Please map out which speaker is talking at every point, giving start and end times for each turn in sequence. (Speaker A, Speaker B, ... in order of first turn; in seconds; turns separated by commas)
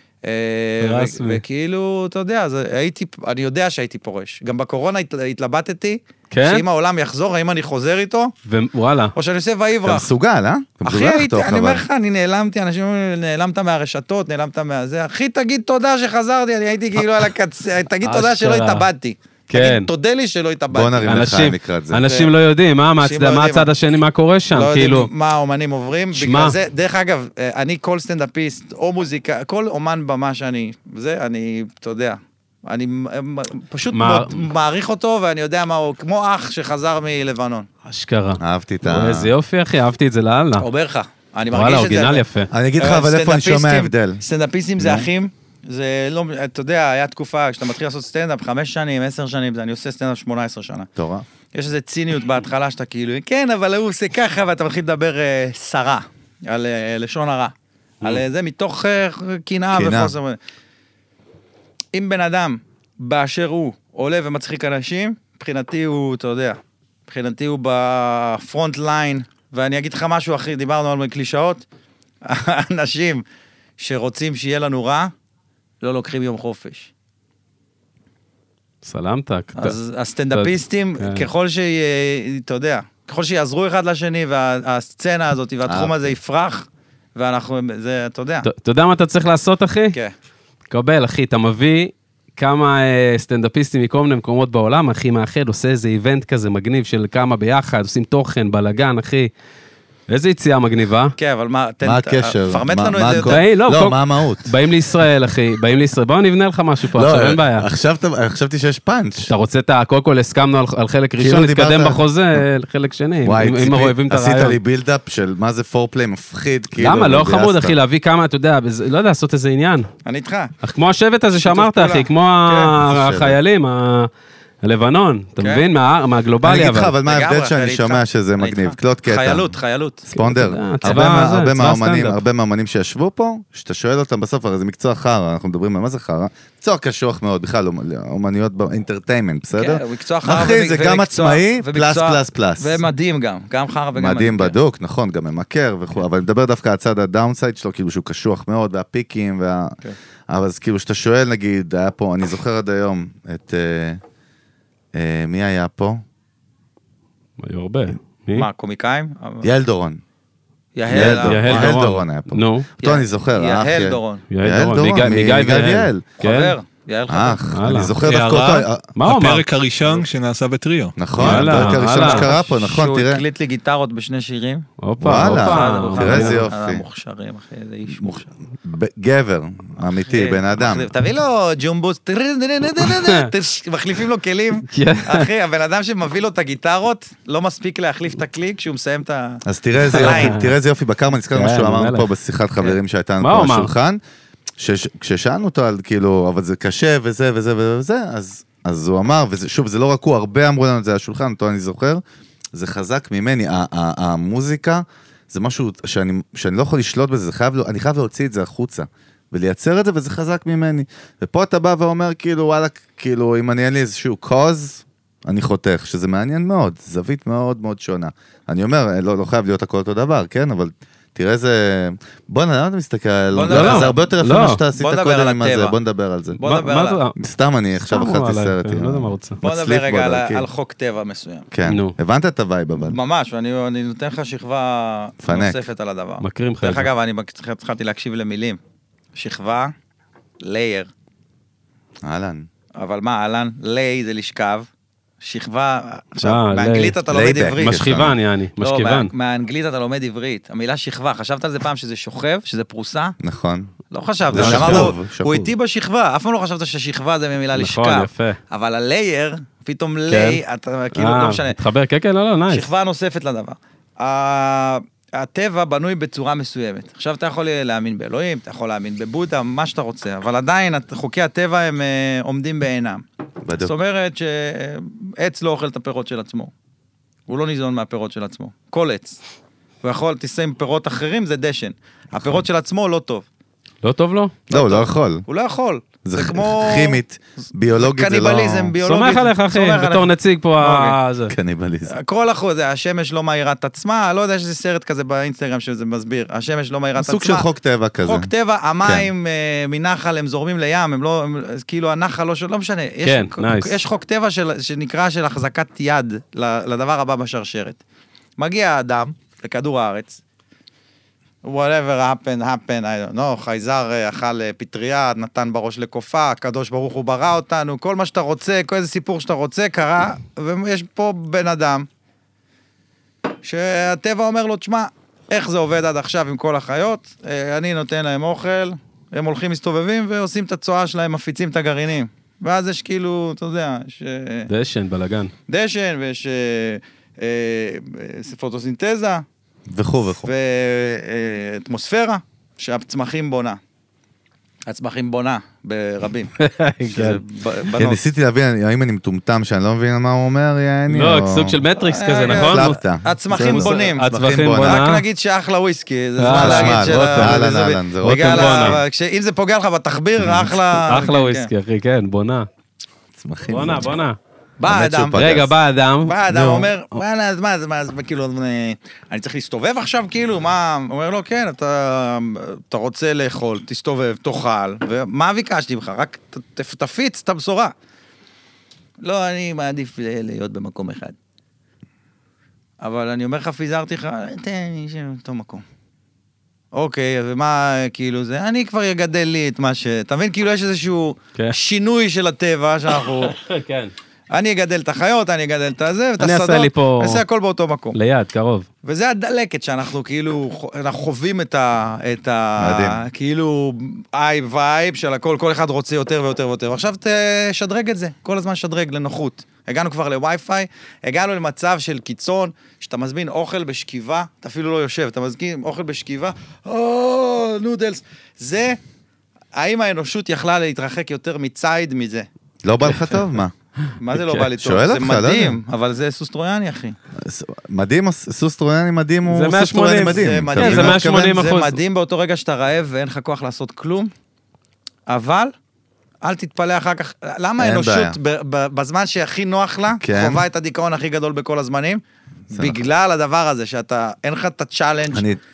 Speaker A: 0.2-8.3, Speaker B: 0.8-1.4, Speaker B: 6.3-6.6, Speaker B: 8.4-9.1, Speaker A: 9.1-10.1, Speaker C: 9.8-11.8, Speaker A: 10.8-21.4, Speaker B: 18.0-18.9, Speaker B: 19.5-19.9, Speaker C: 20.7-22.0, Speaker B: 21.1-25.1, Speaker A: 22.0-22.3, Speaker A: 23.0-23.7, Speaker A: 24.5-37.7, Speaker B: 26.1-26.6, Speaker B: 33.9-34.4, Speaker B: 37.9-40.6, Speaker C: 38.4-39.3, Speaker A: 40.6-42.2, Speaker B: 41.5-42.5, Speaker C: 42.5-44.2, Speaker A: 42.8-50.9, Speaker C: 44.8-45.1, Speaker C: 51.0-51.2, Speaker A: 51.5-60.4, Speaker C: 59.7-60.1, Speaker A: 61.9-71.6, Speaker A: 72.2-73.2, Speaker A: 73.8-75.1, Speaker A: 75.8-76.9, Speaker B: 78.8-79.8, Speaker A: 79.5-88.5, Speaker B: 80.3-81.2, Speaker C: 85.7-86.0, Speaker B: 88.5-90.0, Speaker B: 90.7-99.3, Speaker B: 100.1-101.1, Speaker A: 101.2-103.4, Speaker C: 101.8-104.5, Speaker B: 103.2-107.7, Speaker C: 106.9-109.3, Speaker B: 109.3-114.6, Speaker C: 111.2-112.4, Speaker C: 113.2-117.8, Speaker B: 116.8-119.9, Speaker A: 120.0-120.5, Speaker B: 120.6-124.1, Speaker A: 121.3-122.7, Speaker C: 122.8-123.4, Speaker B: 124.6-126.9, Speaker A: 125.4-125.6, Speaker C: 126.4-129.5, Speaker A: 127.0-130.1, Speaker C: 130.1-142.8, Speaker B: 130.1-132.2, Speaker A: 139.5-144.6, Speaker C: 143.9-149.8, Speaker C: 150.3-154.0, Speaker C: 154.9-156.0, Speaker B: 157.4-158.5, Speaker A: 158.3-159.5, Speaker C: 159.4-160.0, Speaker A: 160.7-161.8, Speaker C: 160.9-166.0, Speaker B: 160.9-162.7, Speaker A: 162.8-164.2, Speaker B: 164.3-166.6, Speaker A: 166.2-167.4, Speaker C: 167.1-168.9, Speaker B: 167.5-168.0, Speaker D: 168.0-171.7, Speaker B: 168.9-169.4, Speaker C: 171.0-173.2, Speaker B: 171.2-172.3, Speaker A: 171.3-178.3, Speaker B: 174.8-176.4, Speaker C: 175.0-176.8, Speaker C: 178.6-180.9, Speaker A: 179.8-190.3, Speaker B: 182.9-183.3, Speaker B: 184.7-185.3, Speaker C: 189.4-194.0, Speaker B: 189.9-190.5, Speaker B: 191.3-192.1, Speaker B: 193.2-193.7, Speaker C: 194.6-202.0, Speaker C: 202.5-226.4, Speaker A: 223.3-224.1, Speaker B: 223.4-224.6, Speaker A: 224.7-225.8, Speaker B: 226.4-227.2, Speaker A: 226.4-227.0, Speaker C: 227.2-230.5, Speaker B: 227.8-229.4, Speaker A: 229.4-231.5, Speaker C: 231.5-233.0, Speaker B: 231.7-231.9, Speaker A: 232.8-238.6, Speaker C: 235.2-235.6, Speaker B: 236.2-236.9, Speaker A: 239.1-239.7, Speaker A: 240.4-240.9, Speaker C: 242.0-242.5, Speaker A: 242.8-244.7, Speaker A: 245.2-247.9, Speaker B: 246.2-247.0, Speaker C: 247.1-248.2, Speaker B: 247.6-249.1, Speaker A: 248.6-253.2, Speaker C: 253.2-253.7, Speaker A: 253.9-261.6, Speaker C: 254.3-255.5, Speaker B: 254.3-254.9, Speaker B: 257.6-258.4, Speaker B: 260.1-260.4, Speaker B: 260.9-262.7, Speaker A: 262.5-273.0, Speaker C: 273.4-273.7, Speaker A: 273.6-276.5, Speaker A: 277.3-279.2, Speaker A: 279.8-283.2, Speaker B: 283.8-284.3, Speaker C: 284.5-285.2, Speaker A: 284.5-287.0, Speaker C: 286.0-288.7, Speaker A: 287.7-291.0, Speaker B: 288.8-291.3, Speaker C: 291.3-291.9, Speaker A: 291.9-297.4, Speaker C: 297.0-298.3, Speaker A: 298.0-307.8, Speaker C: 298.8-299.1, Speaker B: 303.0-303.7, Speaker A: 308.4-310.2, Speaker A: 311.4-321.9, Speaker A: 323.4-334.5, Speaker B: 334.5-335.3, Speaker A: 335.5-339.2, Speaker C: 339.7-340.3, Speaker A: 340.2-343.6, Speaker A: 344.7-346.3, Speaker B: 346.4-347.2, Speaker A: 346.9-348.0, Speaker C: 347.7-351.6, Speaker B: 350.9-352.8, Speaker A: 351.7-354.1, Speaker C: 352.3-354.8, Speaker B: 353.3-355.0, Speaker A: 354.6-361.5, Speaker B: 356.2-357.5, Speaker C: 356.3-358.8, Speaker B: 358.0-358.8, Speaker B: 360.8-362.5, Speaker C: 363.1-363.9, Speaker B: 363.5-364.2, Speaker A: 364.6-365.2, Speaker C: 364.7-365.5, Speaker B: 365.1-366.2, Speaker A: 366.0-377.7, Speaker C: 366.3-366.7, Speaker A: 379.0-381.1, Speaker A: 382.8-385.6, Speaker A: 386.7-393.4, Speaker B: 393.3-393.9, Speaker A: 394.3-398.0, Speaker B: 396.2-397.2, Speaker B: 397.9-398.7, Speaker A: 398.8-418.8, Speaker C: 402.6-403.0, Speaker A: 419.5-422.3, Speaker C: 422.6-423.5, Speaker A: 424.0-427.0, Speaker B: 424.1-424.4, Speaker C: 424.5-425.6, Speaker C: 427.2-431.3, Speaker B: 429.2-431.8, Speaker A: 430.1-434.1, Speaker A: 435.1-435.5, Speaker A: 436.2-445.3, Speaker C: 437.6-438.2, Speaker C: 440.0-440.4, Speaker C: 442.5-442.8, Speaker C: 445.1-445.4